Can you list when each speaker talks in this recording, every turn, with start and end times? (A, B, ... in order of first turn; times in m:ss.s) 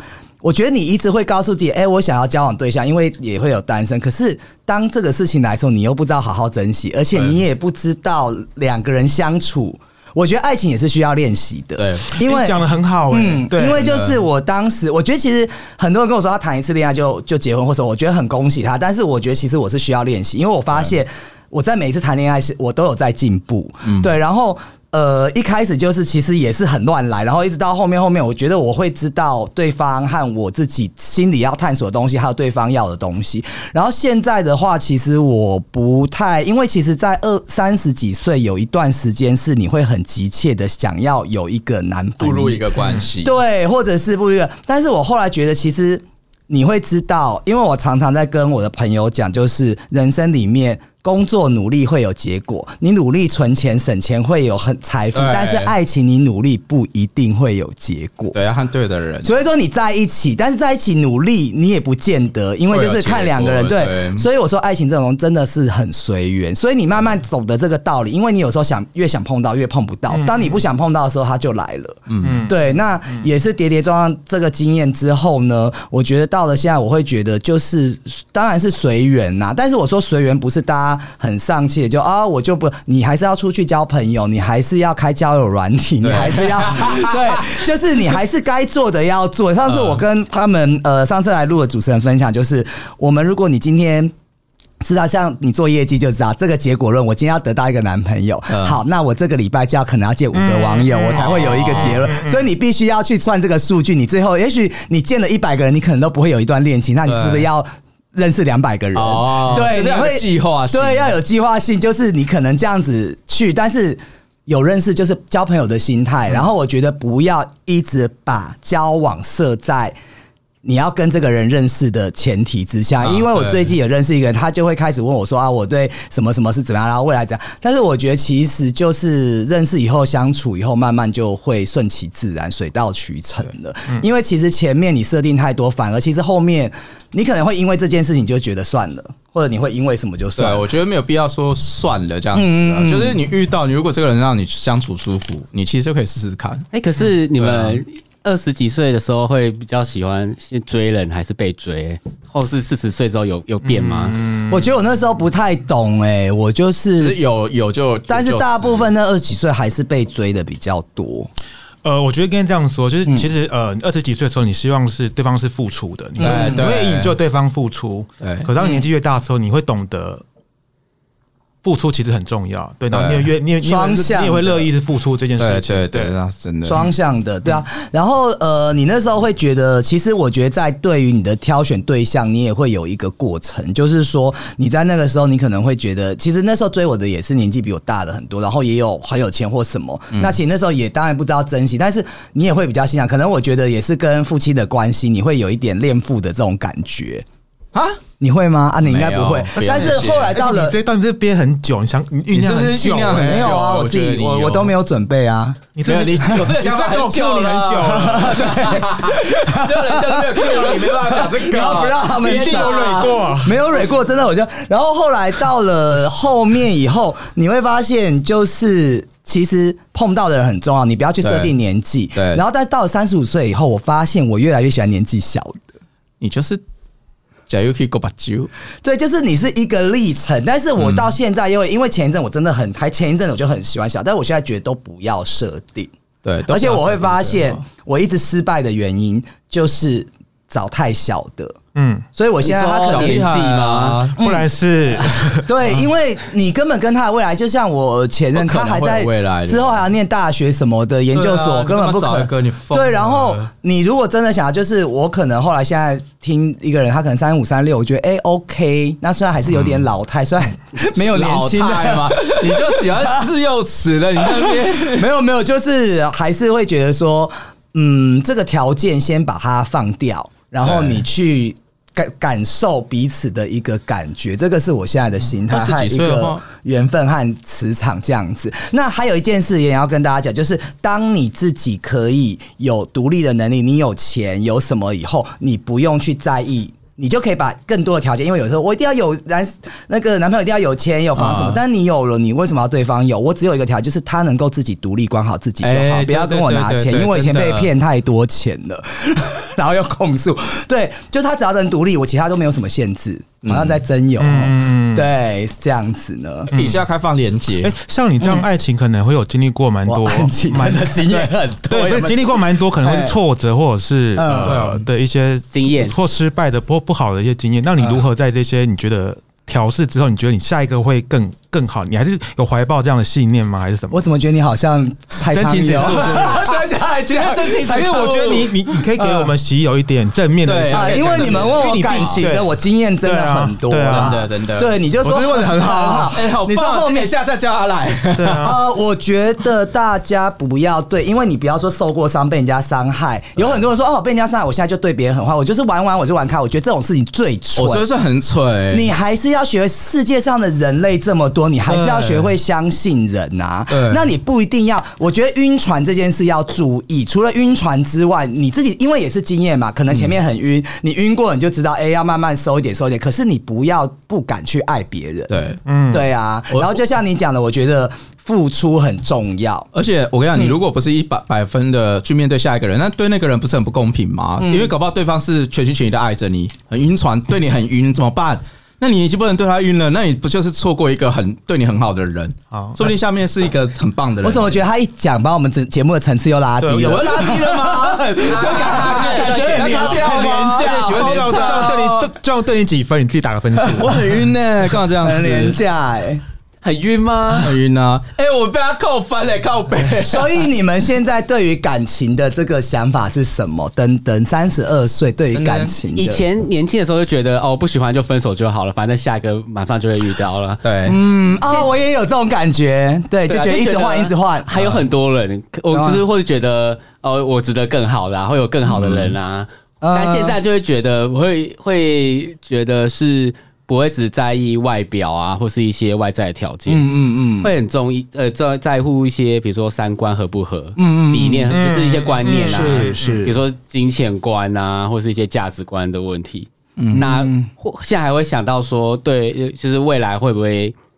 0:00.4-0:12.6 A
0:11.8-0:12.2 B
0:12.2-0:13.9 C
0:13.1-0:42.6 A
0:13.7-0:14.2 B
0:23.8-0:24.1 B
0:42.2-0:43.3 B
0:43.2-0:58.4 A
0:55.1-0:55.7 B
0:58.3-0:59.3 B
0:59.2-1:34.1 A
1:02.7-1:04.2 B
1:10.1-1:10.6 C
1:12.1-1:12.4 B
1:12.2-1:13.3 C
1:26.0-1:27.6 B
1:29.6-1:30.0 B
1:34.8-2:00.0 A
1:38.5-1:38.8 B
1:40.3-1:42.4 C
1:41.1-1:42.0 B
1:47.0-1:47.5 B
1:48.9-1:51.1 B
2:00.6-2:20.6 A
2:03.0-2:03.7 B
2:20.4-2:26.7 B
2:22.3-2:23.2 A
2:26.7-2:34.2 D
2:27.3-2:27.8 B
2:33.6-2:34.8 C
2:34.5-2:37.2 A
2:37.0-2:38.9 B
2:38.1-2:41.3 A
2:41.8-2:50.2 C
2:46.2-2:46.6 A
2:46.2-2:47.1 B
2:48.2-2:48.5 B
2:51.6-2:56.2 C
2:52.9-2:53.3 B
2:53.6-2:54.7 A
2:55.4-2:56.9 B
2:56.6-3:17.2 A
3:17.7-3:18.0 B
3:18.2-3:20.8 A
3:18.8-3:20.3 B
3:19.6-3:23.6 C
3:22.3-3:24.7 B
3:23.2-3:25.6 A
3:25.7-3:28.8 C
3:25.8-3:33.3 B
3:27.9-3:45.6 A
3:32.2-3:33.6 C
3:41.2-3:41.5 B
3:42.1-3:42.4 B
3:46.2-3:46.6 B
3:47.5-3:48.5 B
3:48.8-3:55.9 A
3:50.8-3:51.1 B
3:56.2-3:57.6 B
3:56.5-4:01.6 A
4:01.7-4:02.0 C
4:02.1-4:03.2 A
4:02.4-4:04.1 D
4:02.8-4:04.2 B
4:04.2-4:04.4 A
4:04.2-4:05.5 C
4:05.4-4:23.2 A
4:08.3-4:09.8 B
4:11.1-4:13.5 B
4:19.5-4:19.8 B
4:20.9-4:25.1 B
4:24.2-5:06.5 A
4:30.6-4:31.0 B
4:35.5-4:36.4 B
4:51.2-4:51.6 B
4:55.6-4:57.7 B
5:03.4-5:03.8 B
5:04.2-5:05.1 C
5:06.5-5:06.8 C
5:06.5-5:07.7 B
5:07.6-5:24.0 C
5:09.8-5:13.2 A
5:14.2-5:14.6 A
5:14.4-5:14.8 B
5:15.5-5:15.9 D
5:23.9-5:28.2 A
5:25.3-5:26.5 C
5:26.0-5:28.6 B
5:27.6-5:32.5 C
5:29.0-5:29.3 A
5:30.4-5:32.2 B
5:30.7-5:37.1 A
5:33.0-5:34.2 C
5:33.9-5:34.7 B
5:35.0-5:36.2 C
5:36.1-5:38.6 B
5:38.1-5:38.6 C
5:38.4-5:47.8 A
5:47.6-5:48.9 B
5:48.7-6:05.3 A
5:51.7-5:52.3 B
5:53.7-5:54.1 B
6:05.3-6:05.6 B
6:05.6-6:06.0 C
6:05.9-6:09.7 A
6:09.7-6:24.6 B
6:14.4-6:14.7 A
6:22.5-6:22.9 C
6:24.2-6:31.8 A
6:26.6-6:27.2 C
6:26.7-6:32.1 B
6:28.2-6:30.0 D
6:28.8-6:34.2 C
6:33.7-6:35.6 B
6:35.0-6:36.2 A
6:36.6-6:37.5 D
6:37.4-6:40.5 B
6:40.0-6:46.2 A
6:45.3-6:45.8 B
6:45.9-6:50.6 D
6:50.6-6:51.0 B
6:50.8-6:54.5 A
6:53.3-7:20.7 D
6:54.5-6:54.8 B
6:55.7-6:56.0 A
6:58.6-6:59.2 B
6:59.8-7:00.4 A
7:06.6-7:07.5 A
7:10.8-7:11.5 A
7:11.5-7:13.3 C
7:12.4-7:13.3 A
7:16.8-7:17.1 B
7:16.9-7:17.5 A